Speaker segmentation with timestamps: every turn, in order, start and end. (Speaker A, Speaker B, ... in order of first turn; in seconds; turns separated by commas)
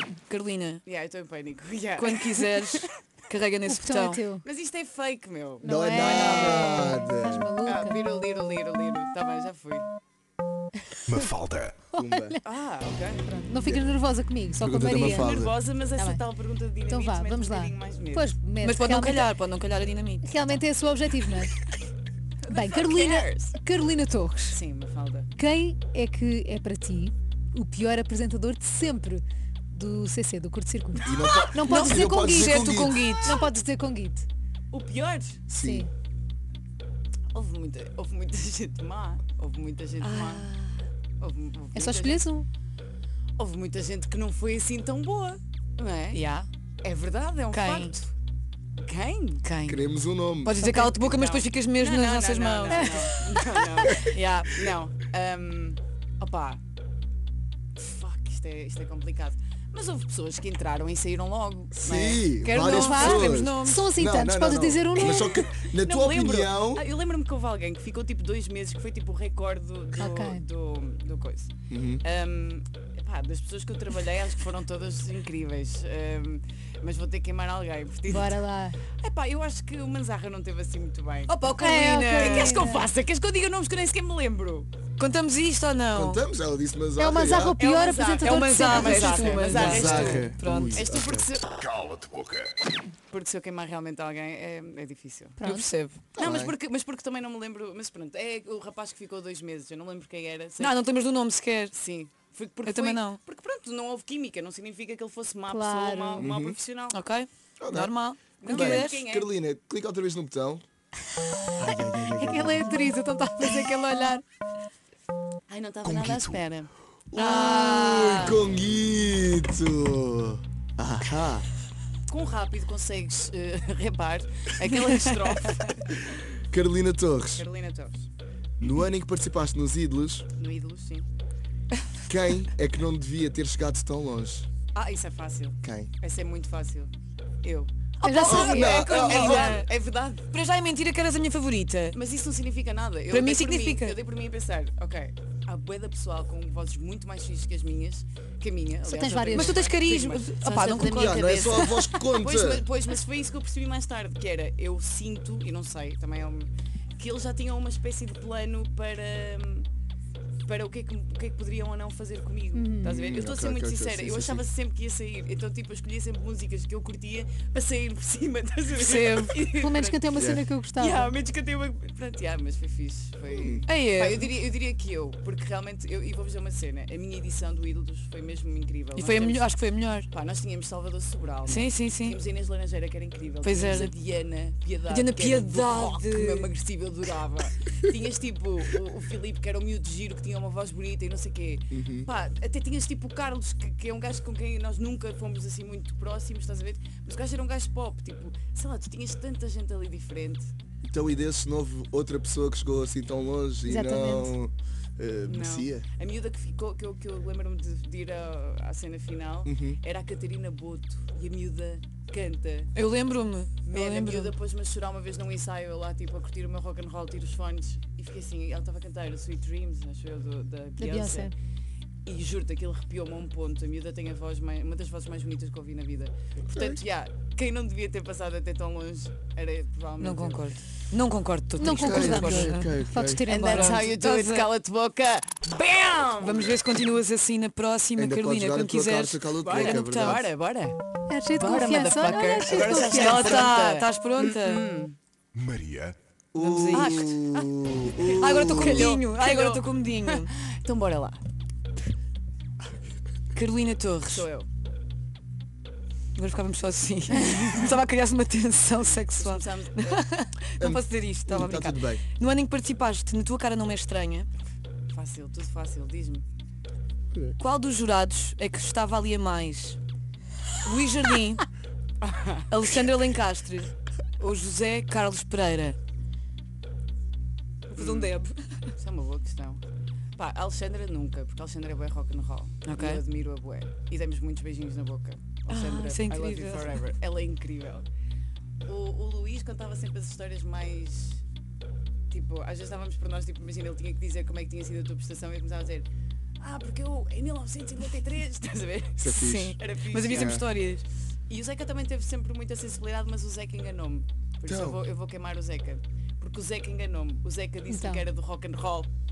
Speaker A: 0.3-0.8, Speaker B: 0.8-2.9, Speaker A: 2.0-4.2, Speaker C: 3.6-4.4, Speaker B: 4.4-6.7, Speaker C: 5.6-8.0, Speaker D: 5.6-7.5, Speaker A: 6.2-6.5, Speaker B: 7.6-9.9, Speaker E: 11.1-11.8, Speaker D: 11.9-12.4, Speaker C: 11.9-12.4, Speaker B: 12.4-13.4, Speaker C: 13.3-15.4, Speaker D: 13.6-14.0, Speaker D: 14.5-15.5, Speaker B: 14.9-18.3, Speaker C: 16.0-16.2, Speaker C: 16.9-19.3, Speaker A: 18.6-20.6, Speaker C: 20.2-21.6, Speaker B: 22.4-23.6, Speaker C: 22.5-24.6, Speaker B: 24.5-25.3, Speaker C: 25.4-34.3, Speaker D: 31.0-33.0, Speaker A: 31.6-33.4, Speaker B: 34.7-35.4, Speaker D: 35.5-35.9, Speaker C: 35.5-35.9, Speaker B: 37.3-40.5, Speaker A: 40.0-40.9, Speaker B: 41.2-42.3, Speaker C: 41.7-42.5, Speaker B: 43.4-46.2, Speaker A: 46.1-46.5, Speaker B: 46.8-48.1, Speaker A: 47.5-48.0, Speaker B: 48.8-49.4, Speaker A: 49.4-49.9, Speaker D: 49.7-50.5, Speaker A: 50.4-53.0, Speaker C: 50.6-50.9, Speaker B: 50.8-56.6, Speaker C: 52.7-53.9, Speaker A: 54.0-54.7, Speaker B: 57.8-62.3, Speaker D: 61.7-66.8, Speaker A: 62.4-63.9, Speaker C: 62.6-65.3, Speaker B: 65.0-78.4, Speaker C: 70.0-70.4, Speaker D: 71.7-72.0, Speaker C: 78.1-78.8, Speaker B: 79.0-81.4, Speaker A: 81.3-82.6, Speaker C: 81.6-82.9, Speaker B: 82.1-84.7, Speaker A: 85.0-86.2, Speaker D: 85.9-87.6, Speaker C: 87.0-90.1, Speaker B: 87.6-91.5, Speaker A: 88.2-90.8, Speaker D: 89.5-91.3, Speaker E: 91.6-92.5, Speaker B: 93.1-95.4, Speaker C: 95.4-95.7, Speaker A: 95.4-96.0, Speaker D: 96.2-96.5, Speaker B: 96.2-100.8, Speaker A: 100.6-101.7, Speaker B: 101.7-107.0, Speaker A: 102.6-103.2, Speaker C: 105.5-106.3, Speaker D: 106.2-106.6, Speaker A: 106.9-109.0, Speaker D: 107.6-110.6, Speaker B: 108.4-109.3, Speaker D: 111.6-112.7, Speaker C: 111.8-114.2, Speaker A: 113.2-114.2, Speaker B: 115.5-116.7, Speaker E: 115.8-116.3, Speaker D: 117.1-121.5, Speaker A: 117.1-118.4, Speaker B: 122.1-126.3, Speaker A: 124.7-125.3, Speaker D: 126.5-127.5, Speaker B: 127.4-128.1, Speaker D: 128.6-130.3, Speaker B: 130.3-131.1, Speaker D: 132.1-134.5, Speaker B: 134.7-136.9, Speaker D: 135.6-135.9, Speaker B: 137.4-137.7, Speaker C: 138.0-138.8, Speaker A: 138.0-139.7, Speaker D: 138.3-139.6, Speaker B: 138.3-140.3, Speaker A: 140.3-142.0, Speaker B: 141.9-159.7, Speaker A: 143.1-144.0, Speaker C: 148.8-149.7, Speaker A: 149.3-151.9, Speaker D: 150.8-152.7, Speaker B: 160.4-170.1, Speaker C: 162.5-163.0, Speaker D: 162.8-164.4, Speaker A: 168.8-169.5, Speaker C: 169.6-171.1, Speaker D: 170.2-170.4, Speaker B: 170.8-179.5, Speaker D: 173.3-173.6, Speaker A: 173.7-174.3, Speaker A: 178.9-180.1, Speaker B: 180.1-200.5, Speaker A: 181.5-182.2, Speaker A: 183.4-183.9, Speaker A: 184.9-186.5, Speaker D: 191.7-192.1, Speaker D: 200.8-205.9, Speaker C: 203.7-204.3, Speaker B: 205.2-212.7, Speaker D: 209.5-209.8, Speaker A: 212.7-214.3, Speaker B: 213.7-221.3, Speaker C: 220.8-221.3, Speaker B: 222.1-230.5, Speaker D: 226.5-226.8, Speaker A: 230.0-232.7, Speaker C: 231.6-233.9, Speaker D: 231.6-233.3, Speaker B: 233.3-236.6, Speaker A: 233.4-234.5, Speaker A: 236.2-240.2, Speaker D: 238.0-240.3, Speaker B: 239.4-240.8, Speaker C: 241.1-243.4, Speaker B: 241.3-245.0, Speaker A: 242.6-244.6, Speaker E: 245.3-246.0, Speaker D: 246.3-249.0, Speaker A: 246.4-247.2, Speaker B: 246.7-251.2, Speaker A: 248.2-250.3, Speaker A: 253.3-254.3, Speaker B: 254.0-254.5, Speaker A: 256.1-264.3, Speaker B: 257.2-257.7, Speaker B: 259.1-260.0, Speaker D: 260.6-262.0, Speaker B: 264.9-266.2, Speaker A: 267.4-269.8, Speaker A: 270.6-271.4, Speaker B: 272.0-272.5, Speaker A: 272.5-275.8, Speaker A: 277.7-278.4, Speaker B: 277.8-279.6, Speaker B: 280.2-287.9, Speaker A: 282.6-283.0, Speaker A: 285.5-286.8, Speaker B: 288.6-291.2, Speaker B: 292.1-295.9, Speaker B: 296.4-300.4, Speaker D: 299.0-299.6, Speaker A: 299.1-300.9, Speaker D: 300.1-300.4, Speaker B: 301.3-308.9, Speaker D: 304.5-304.8, Speaker C: 307.7-308.0